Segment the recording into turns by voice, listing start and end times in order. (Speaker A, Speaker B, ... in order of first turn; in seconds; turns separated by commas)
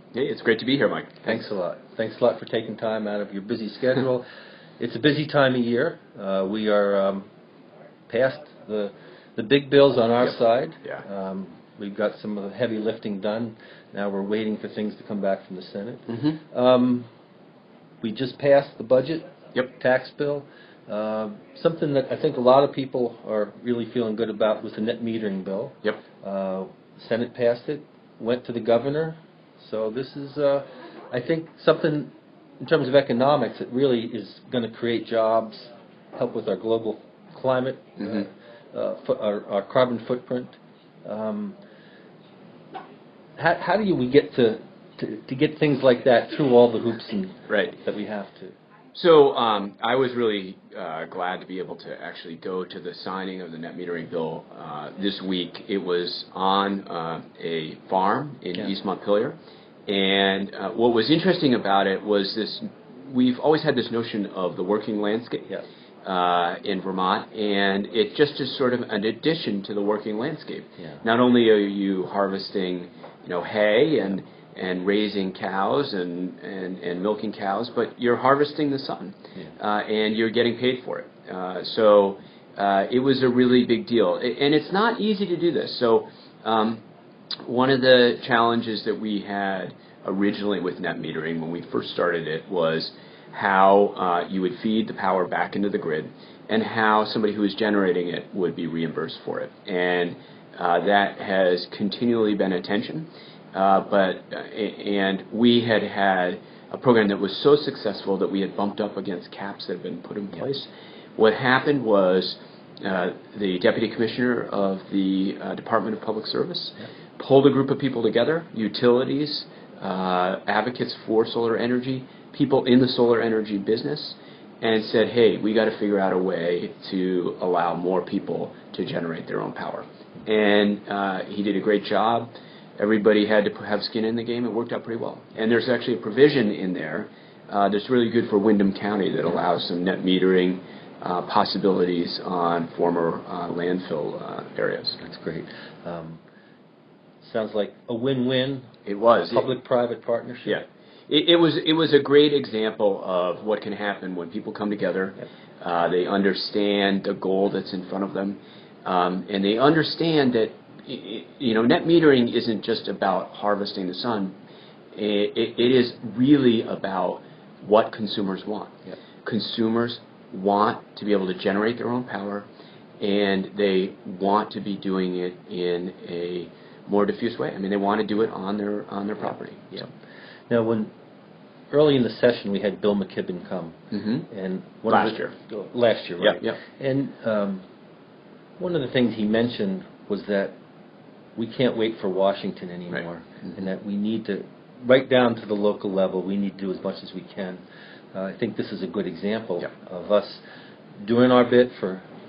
Speaker A: 0.1-1.4, Speaker B: 1.2-4.2, Speaker B: 4.8-7.2, Speaker B: 8.1-17.1, Speaker A: 16.1-16.4, Speaker B: 18.0-19.2, Speaker B: 19.8-41.5, Speaker B: 43.4-48.5, Speaker A: 47.5-47.8, Speaker A: 48.9-59.4, Speaker A: 59.9-65.5, Speaker A: 66.0-86.8, Speaker B: 70.8-71.0, Speaker A: 87.4-145.0, Speaker B: 145.0-146.2, Speaker B: 147.2-148.7, Speaker A: 148.9-149.5, Speaker B: 149.2-150.6, Speaker A: 150.5-164.4, Speaker A: 164.9-172.5, Speaker A: 173.0-179.9, Speaker B: 180.5-180.9, Speaker B: 181.7-187.6, Speaker A: 183.9-184.2, Speaker A: 184.9-185.3, Speaker A: 186.2-186.6, Speaker B: 188.6-190.6, Speaker B: 191.4-197.6, Speaker B: 198.1-200.4, Speaker B: 201.0-202.1